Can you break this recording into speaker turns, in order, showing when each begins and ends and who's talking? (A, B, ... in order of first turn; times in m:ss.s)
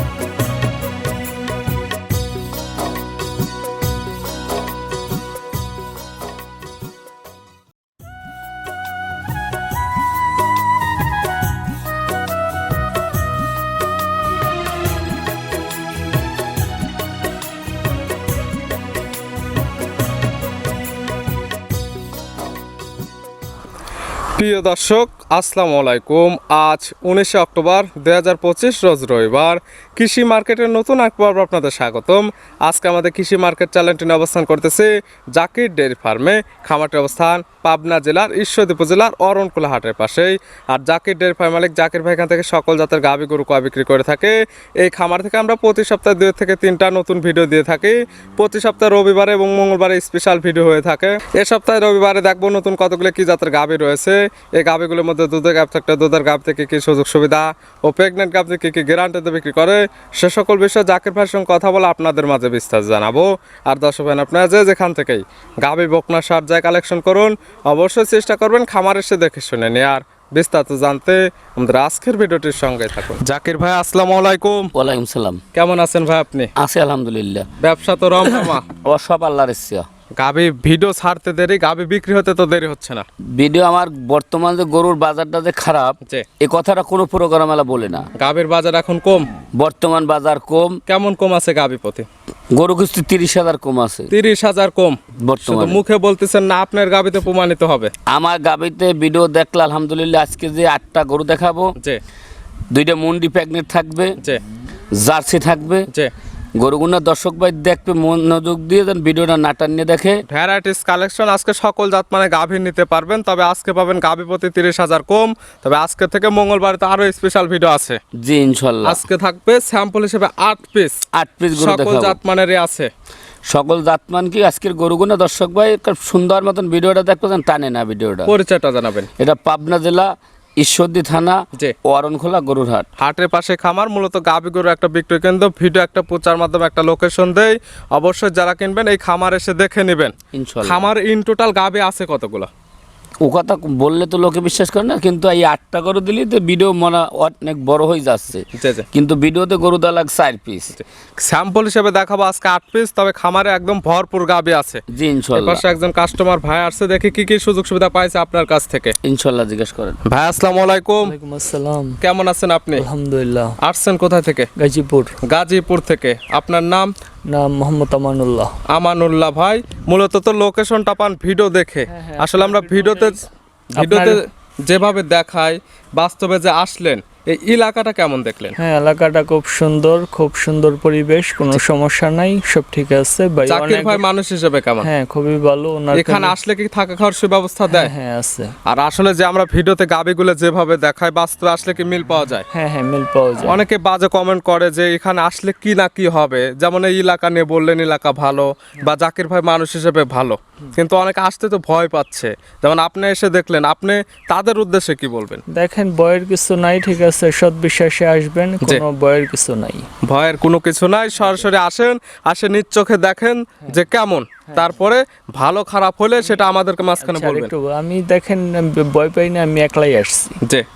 0:24.4-1:14.7 A
1:14.7-1:15.4 B
1:15.5-1:16.5 A
1:16.6-1:17.5 B
1:17.6-1:18.6 A
1:18.3-1:19.8 B
1:20.2-1:23.0 A
1:23.4-1:28.1 B
1:28.2-1:29.3 A
1:29.6-1:30.8 B
1:30.9-1:32.1 A
1:32.5-1:34.1 B
1:34.1-1:37.9 A
1:35.2-1:35.8 B
1:38.1-1:41.7 B
1:42.7-1:44.2 B
1:44.9-1:45.9 B
1:46.6-1:50.2 B
1:50.3-1:58.0 A
1:58.2-1:59.0 B
1:58.8-2:01.0 A
2:01.1-2:02.2 B
2:01.5-2:02.9 A
2:03.5-2:08.3 B
2:08.3-2:09.1 A
2:09.2-2:12.9 B
2:13.0-2:22.5 A
2:20.3-2:20.9 B
2:23.2-2:30.8 B
2:28.6-2:28.8 A
2:30.8-2:34.8 A
2:34.9-2:35.6 B
2:35.3-2:38.9 A
2:39.0-2:40.0 B
2:40.1-2:41.1 A
2:41.0-2:42.0 C
2:42.0-2:42.8 A
2:42.7-2:43.5 C
2:43.6-2:44.5 A
2:44.6-2:45.1 C
2:45.3-2:46.9 A
2:47.3-2:48.5 C
2:48.7-2:53.2 A
2:51.9-2:54.2 C
2:53.7-2:58.6 A
2:58.6-3:04.0 C
3:03.5-3:04.9 A
3:04.8-3:06.3 C
3:05.9-3:07.9 A
3:07.7-3:08.5 C
3:08.7-3:12.4 A
3:12.5-3:13.6 C
3:13.4-3:25.4 A
3:25.5-3:29.8 C
3:30.0-3:37.5 A
3:31.2-3:31.5 C
3:34.5-3:34.8 C
3:37.0-3:40.3 C